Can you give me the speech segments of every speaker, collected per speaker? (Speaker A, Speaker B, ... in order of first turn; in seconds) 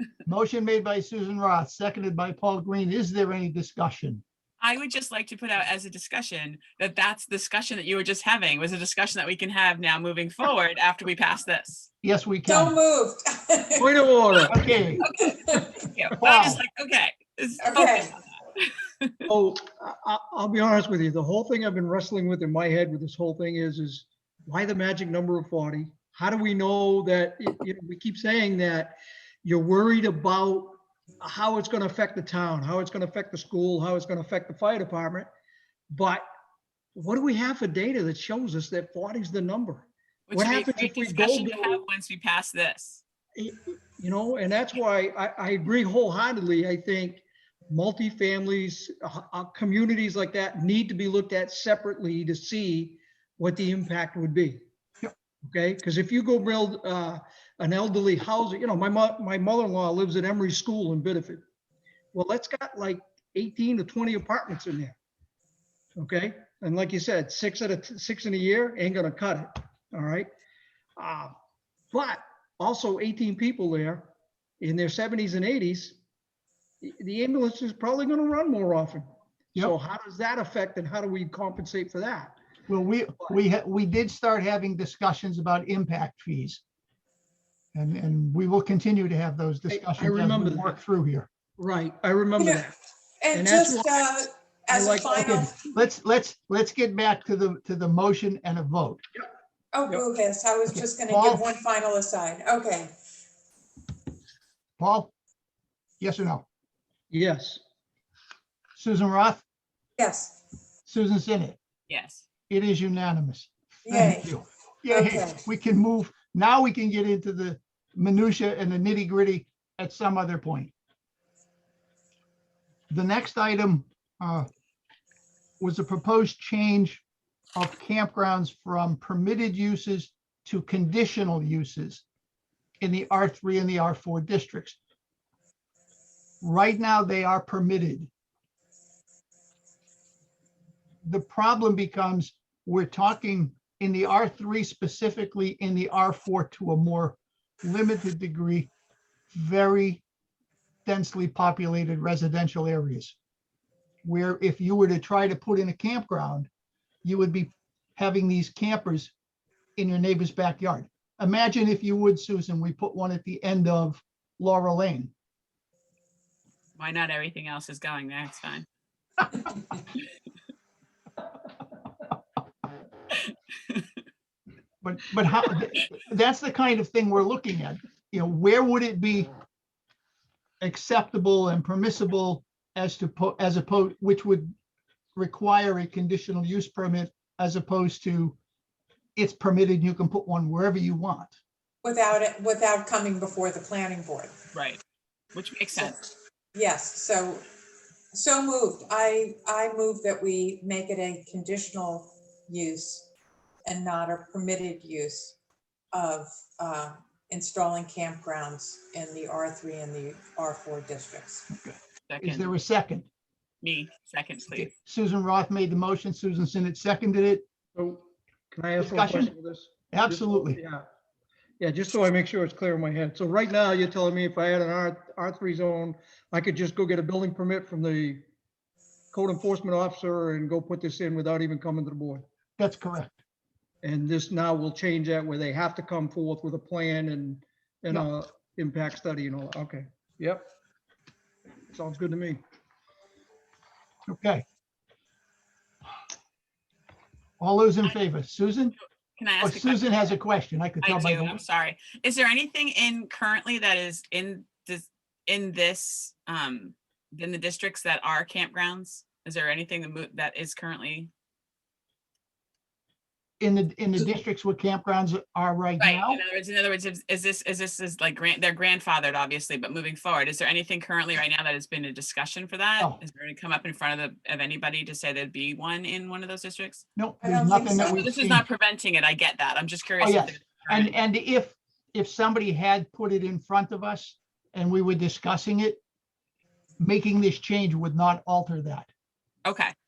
Speaker A: 0.3-4.2, 12.0-12.8, 14.5-15.1, 16.2-16.6, 82.7-86.6, 87.7-91.3, 95.2-99.0, 100.7-101.5, 104.8-105.1, 106.0-106.5, 108.8-109.5, 110.9-111.6, 112.5-120.7, 122.9-124.5, 125.6-127.0, 127.6-132.1, 132.8-134.8, 136.4-138.1, 141.0-148.7, 149.3-150.0, 150.9-153.2, 154.0-156.5, 157.0-159.1, 159.8-165.1, 174.8-179.3, 180.6-184.5, 185.2-188.4, 189.2-191.4, 211.5-213.1, 214.6-217.4, 218.8-219.3, 219.9-220.6, 232.6-233.2, 244.1-244.4, 247.4-248.8, 249.4-251.4, 263.4-266.2, 277.0-278.4, 280.0-285.8, 286.8-288.9
Speaker B: 4.6-11.9, 15.0-19.1, 40.3-43.0, 111.9-112.2, 166.8-168.7, 194.5-194.8, 195.3-196.1, 212.1-212.5, 213.6-214.7, 249.2-249.9, 250.8-261.1, 265.8-276.8, 277.9-280.9, 289.4-289.7
Speaker C: 12.5-13.9, 15.2-15.8, 17.6-18.2, 92.4-92.7, 93.2-95.5, 99.7-102.9, 110.0-110.4, 113.8-114.3, 114.9-115.4, 191.8-194.3, 196.5-197.5, 198.1-203.1, 203.6-205.4, 205.9-211.5, 277.2-278.0
Speaker D: 13.8-14.8, 19.3-35.3, 35.9-36.2, 37.0-41.8, 43.4-54.7, 55.4-61.4, 62.1-65.0, 66.0-70.3, 71.0-71.3, 71.9-74.1, 74.6-76.0, 76.8-82.4, 89.7-90.8, 91.6-92.7, 93.3-94.2, 94.7-95.2, 107.1-107.6, 217.8-220.9, 221.6-228.2, 229.1-232.2, 233.8-240.5, 241.7-242.4